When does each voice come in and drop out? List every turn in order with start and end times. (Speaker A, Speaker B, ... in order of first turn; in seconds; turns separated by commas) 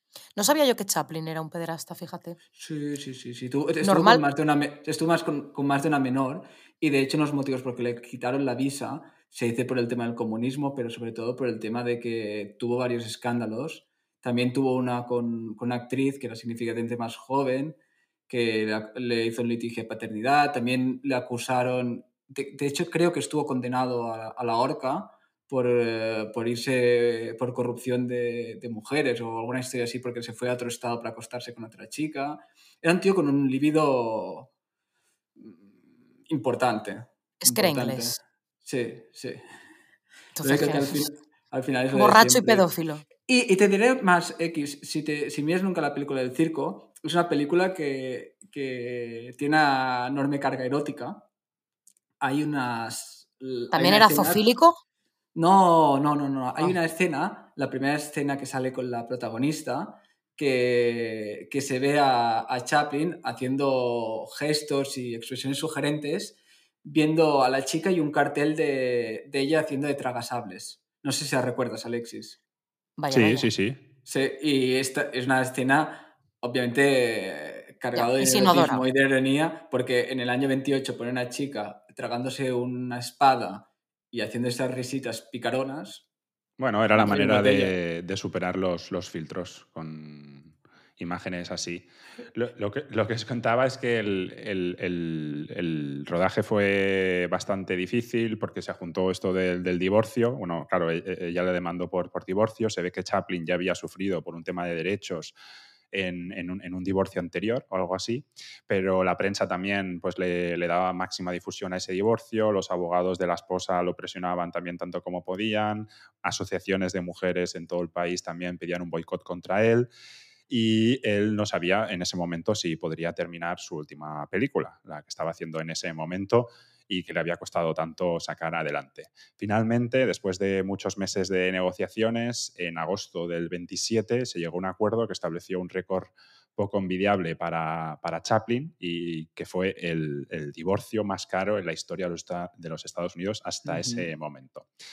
Speaker A: 0.3-2.4, Speaker B: 2.5-17.8, Speaker A: 3.8-4.2, Speaker B: 18.3-34.5, Speaker B: 35.4-35.7, Speaker B: 36.2-39.4, Speaker A: 37.4-38.2, Speaker A: 40.4-41.1, Speaker B: 40.4-51.3, Speaker A: 41.9-43.0, Speaker B: 52.2-54.5, Speaker A: 53.7-54.8, Speaker B: 55.3-72.4, Speaker A: 73.0-73.5, Speaker C: 73.1-73.8, Speaker B: 74.0-86.0, Speaker A: 77.9-78.8, Speaker C: 86.6-105.3, Speaker B: 86.9-87.7, Speaker C: 105.9-119.9, Speaker C: 120.5-144.7, Speaker B: 143.6-144.1